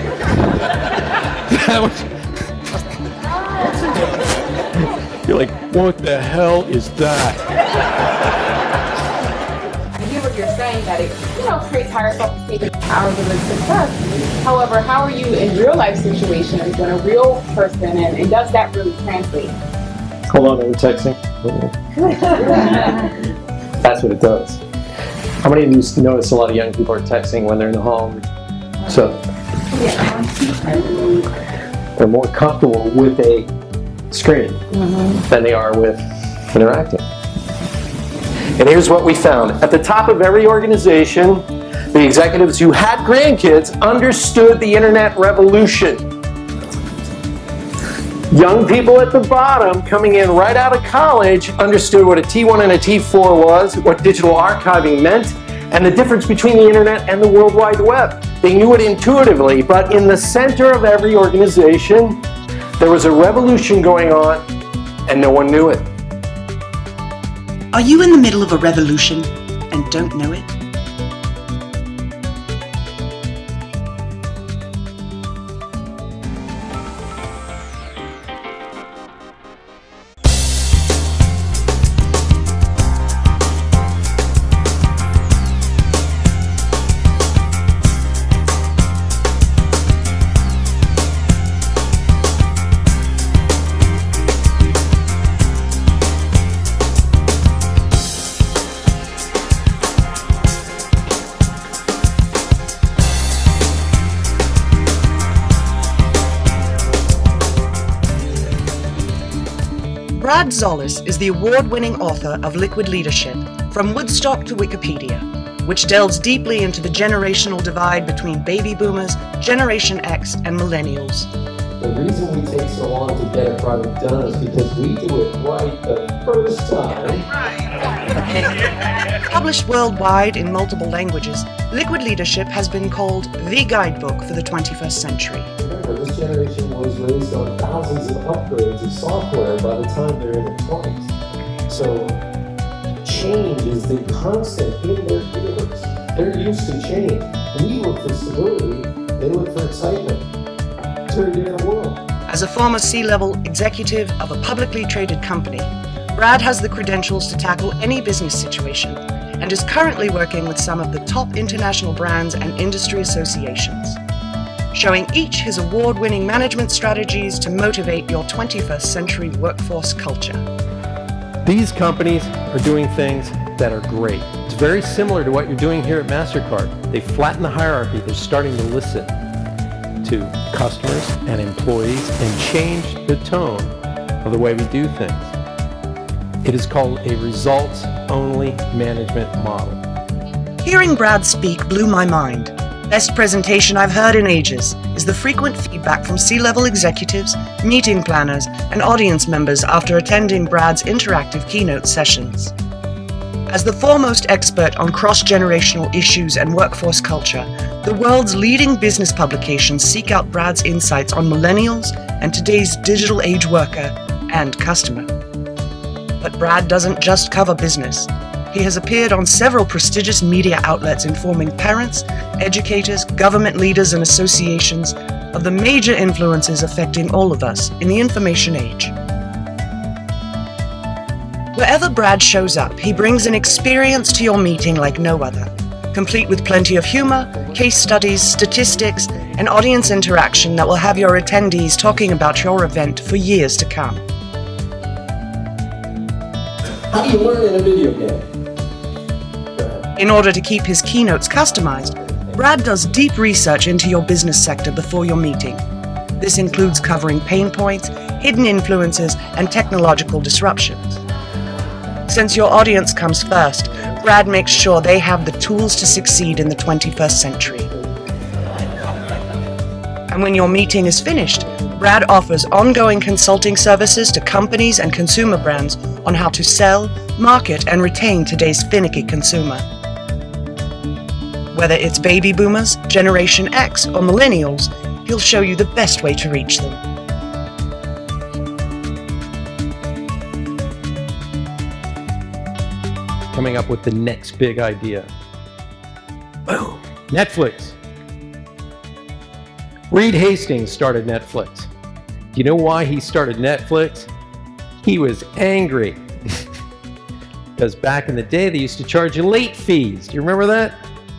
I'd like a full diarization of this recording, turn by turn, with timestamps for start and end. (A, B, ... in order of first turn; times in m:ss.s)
0:00.4-0:02.2 A
0:03.6-0:04.1 A
0:04.8-0:07.5 A
0:10.0-0:19.6 B
0:20.3-0:23.1 A
0:23.8-0:24.6 A
0:25.4-0:28.3 A
0:28.9-0:29.2 A
0:29.8-0:31.1 B
0:32.0-0:33.5 A
0:34.1-0:37.0 A
0:34.8-0:35.2 B
0:38.5-0:46.0 A
0:48.3-1:02.2 A
1:02.8-1:04.4 A
1:05.1-1:05.9 A
1:07.7-1:10.5 C
1:50.2-2:01.3 C
2:01.8-2:07.3 A
2:09.3-2:15.5 C
2:15.6-2:21.2 A
2:21.7-2:22.2 A
2:23.0-2:30.3 A
2:31.1-2:32.0 A
2:32.3-2:44.0 C
2:44.7-2:50.4 C
2:51.4-2:59.1 A
3:00.0-3:05.4 A
3:06.4-3:09.8 A
3:10.6-3:22.5 C
3:23.5-3:35.1 C
3:36.2-3:48.9 C
3:51.6-4:04.0 C
4:06.7-4:08.2 A
4:09.6-4:09.9 A
4:10.0-4:15.6 C
4:11.5-4:12.4 A
4:16.2-4:21.0 C
4:22.1-4:27.7 C
4:30.1-4:39.6 C
4:41.5-4:46.8 C
4:53.3-4:55.1 A
4:56.5-4:57.8 A
4:59.9-5:01.7 A
5:02.3-5:04.1 A
5:04.8-5:06.0 A
5:07.6-5:10.8 A